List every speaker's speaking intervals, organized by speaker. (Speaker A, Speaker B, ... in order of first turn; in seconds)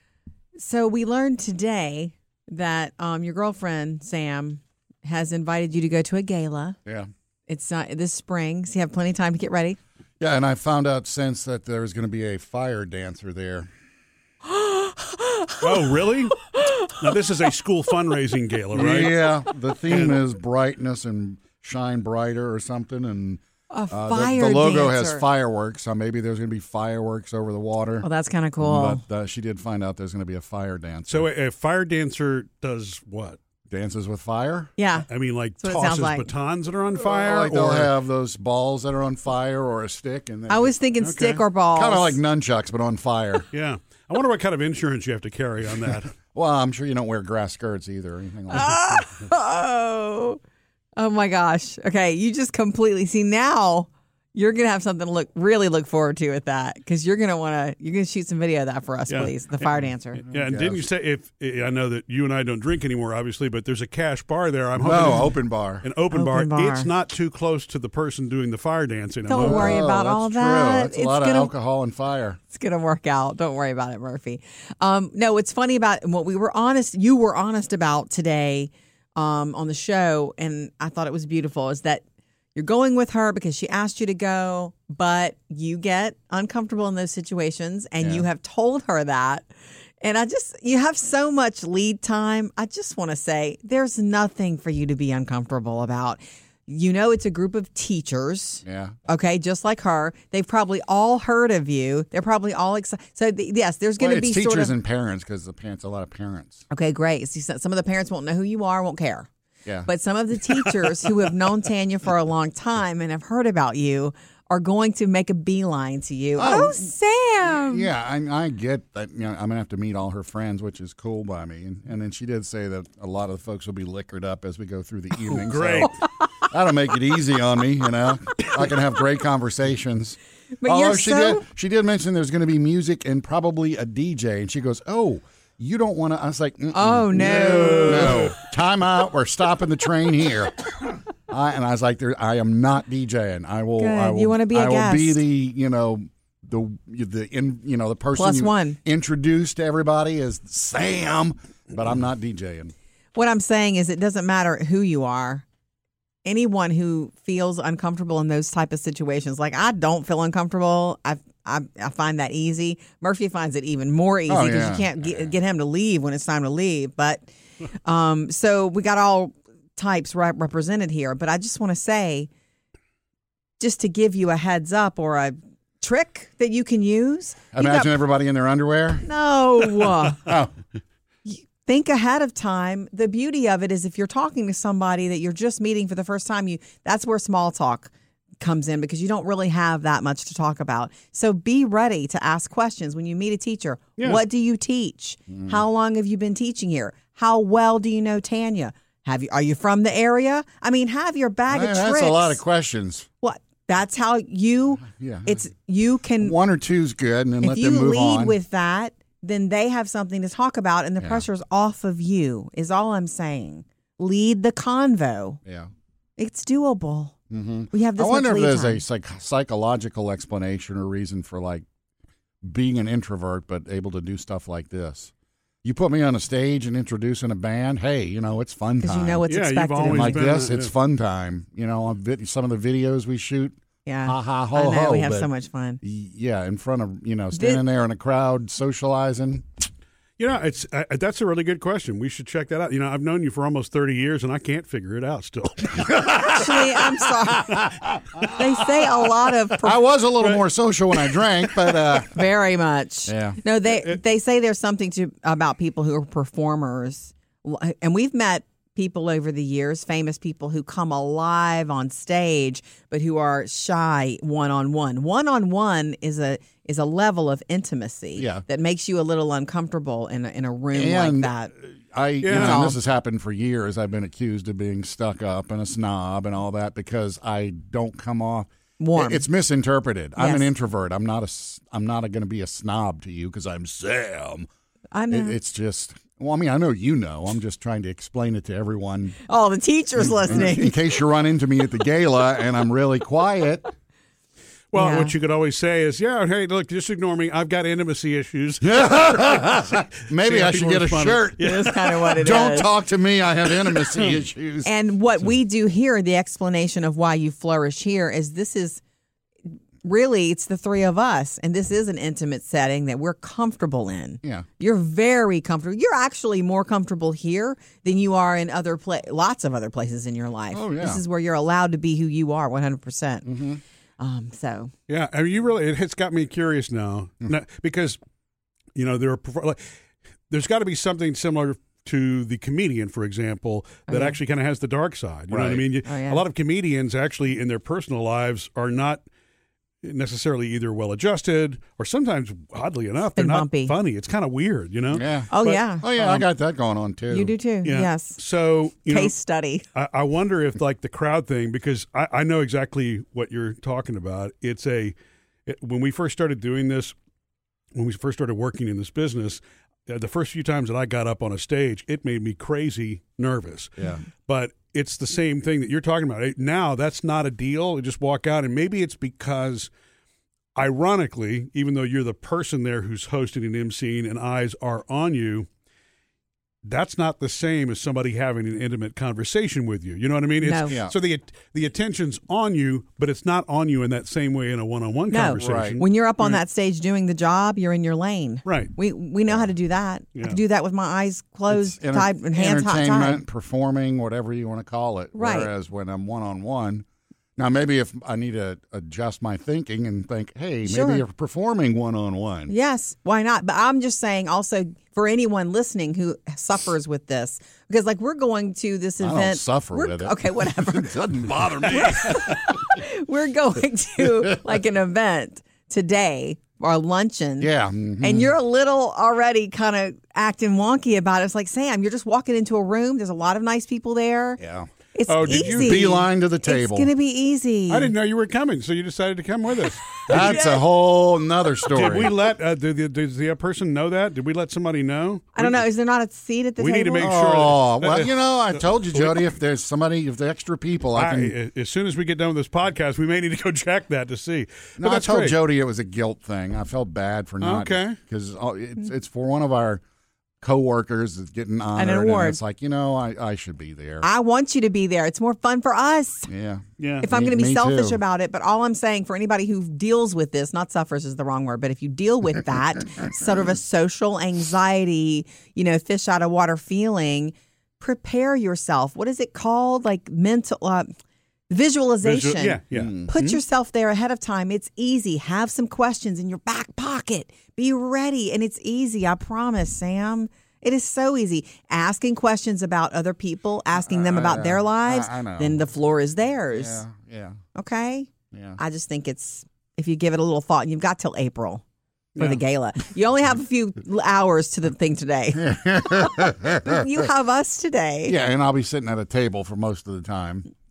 Speaker A: 0.6-6.8, 7.5-9.8, 14.5-15.5, 23.7-25.2, 28.0-29.0, 34.8-35.1, 35.6-36.3, 40.5-42.2, 48.5-50.4, 51.0-60.2, 66.1-66.9, 69.3-71.5, 72.5-82.0, 82.5-89.5, 90.0-104.7, 106.7-109.3, 109.8-117.9, 130.6-131.4, 136.7-138.3, 143.8-145.2, 148.2-148.8, 153.1-155.4, 156.2-167.2, 167.8-172.3, 173.6-178.0, 179.0-180.3, 181.2-202.4, 203.2-206.3, 207.4-215.4, 216.2-217.1, 217.7-218.8, 228.8-230.3, 233.8-235.8, 237.3-237.6, 246.2-247.7, 248.3-249.8, 251.9-271.5, 272.3-272.8, 278.8-279.3, 280.2-280.5, 284.9-285.4, 289.3-290.8, 294.7-295.1, 301.4-302.7, 304.6-308.8, 309.8-323.2, 324.0-324.7, 333.9-334.2, 335.8-336.2, 343.1-343.7, 345.3-345.9, 347.1-348.2, 348.9-349.6, 380.4-380.8, 385.1-393.2, 395.1-395.5, 400.6-401.0, 402.5-417.5, 418.0-424.4, 424.9-427.9, 430.1-430.6, 435.4-437.2, 451.8-452.4, 454.0-456.3, 457.0-470.9, 471.5-486.8, 487.5-491.6, 492.2-498.2
Speaker B: 10.2-13.7, 18.7-28.1, 28.6-31.3, 33.7-34.7, 37.0-40.7, 41.7-43.5, 46.3-49.0, 60.2-60.8, 64.8-65.8, 69.4-72.4, 88.0-88.2, 98.7-98.9, 104.0-106.6, 116.4-116.8, 117.5-140.7, 141.3-152.7, 164.3-164.9, 177.5-179.0, 180.1-180.5, 195.3-195.6, 201.5-203.1, 204.9-205.3, 206.2-208.3, 217.3-221.6, 222.4-225.1, 225.6-229.2, 229.8-235.3, 235.8-239.4, 246.1-246.4, 247.0-247.6, 249.6-252.2, 253.1-253.4, 268.2-268.4, 270.7-284.5, 285.1-289.2, 290.0-293.7, 298.6-301.5, 302.1-304.7, 320.5-321.0, 323.2-323.6, 335.3-335.6, 344.9-347.3, 385.4-385.8, 391.5-396.8, 397.4-402.5, 409.0-412.3, 417.4-418.3, 424.4-424.7, 425.2-426.9, 430.1-432.1, 437.0-441.3, 444.8-449.8, 450.4-454.1, 456.3-458.0, 472.7-473.1, 483.8-485.6, 486.5-487.4, 488.3-488.6, 495.3-496.8, 498.1-500.5
Speaker C: 15.6-16.4, 16.9-19.2, 19.9-20.2, 31.1-33.4, 35.1-37.9, 41.0-41.4, 43.5-46.1, 59.1-69.8, 125.3-125.9, 137.2-138.3, 229.3-230.7, 240.2-246.4, 272.2-272.7, 294.7-302.2, 324.9-328.0, 328.7-329.6, 330.3-339.0, 339.8-346.2, 347.6-349.1, 349.7-356.9, 357.7-369.7, 370.5-375.5, 376.6-386.4, 388.4-388.7, 425.1-425.8, 427.7-430.4, 431.7-435.6, 436.6-439.2, 440.9-445.3, 447.4-448.0, 456.8-457.1, 472.0-473.4